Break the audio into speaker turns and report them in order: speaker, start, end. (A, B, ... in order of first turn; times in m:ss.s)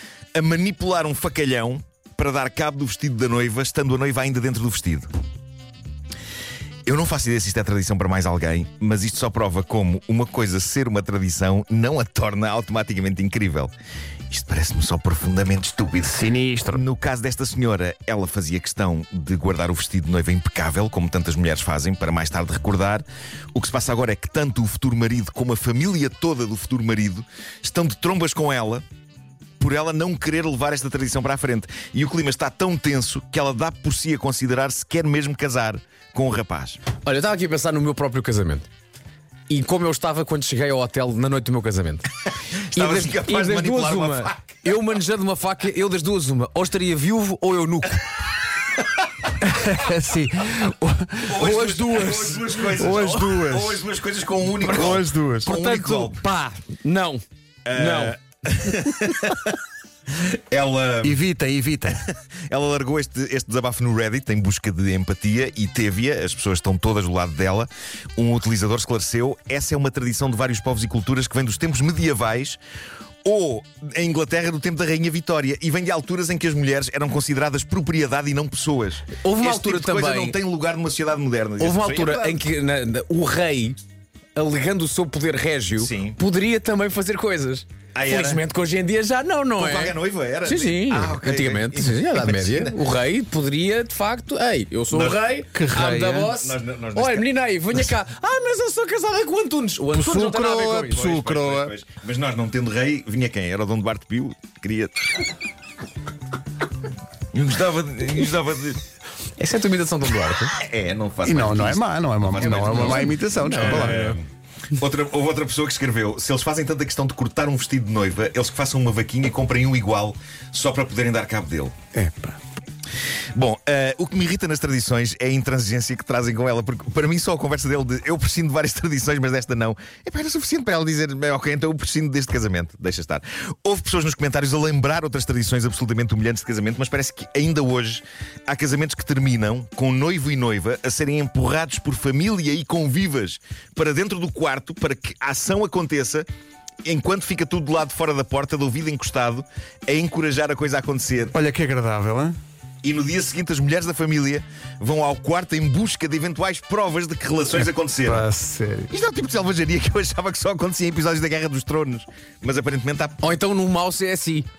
0:00.4-0:05.1 A
0:06.9-0:13.7 A
0:14.3-0:28.8 A
0:16.1-0:16.8 B
0:29.6-0:36.8 A
0:37.0-0:38.7 C
0:39.5-0:42.1 C
0:42.5-0:44.7 A
0:42.8-0:48.2 C
0:49.4-0:53.8 B
0:51.3-0:56.3 A
0:51.4-0:52.3 C
0:54.6-0:55.5 B
0:55.4-0:57.2 C
0:57.7-0:59.5 A
0:57.7-0:58.2 C
1:00.2-1:01.2 A
1:01.0-1:02.0 B
1:01.9-1:12.6 A
1:13.2-1:22.4 A
1:19.2-1:20.4 C
1:21.6-1:23.8 C
1:24.4-1:41.0 C
1:25.8-1:26.2 A
1:27.9-1:28.4 A
1:29.6-1:32.8 A
1:34.9-1:37.3 A
1:35.5-1:36.3 B
1:39.9-1:41.7 B
1:40.8-1:45.0 A
1:47.3-1:48.8 A
1:49.4-1:50.5 C
1:50.6-2:01.7 A
1:51.2-1:54.2 B
1:52.3-1:54.0 C
2:02.0-2:02.4 B
2:03.4-2:26.3 A
2:26.8-2:31.3 A
2:31.3-2:32.4 B
2:32.8-2:38.3 A
2:37.6-2:38.9 B
2:38.9-2:43.2 A
2:43.2-2:44.5 C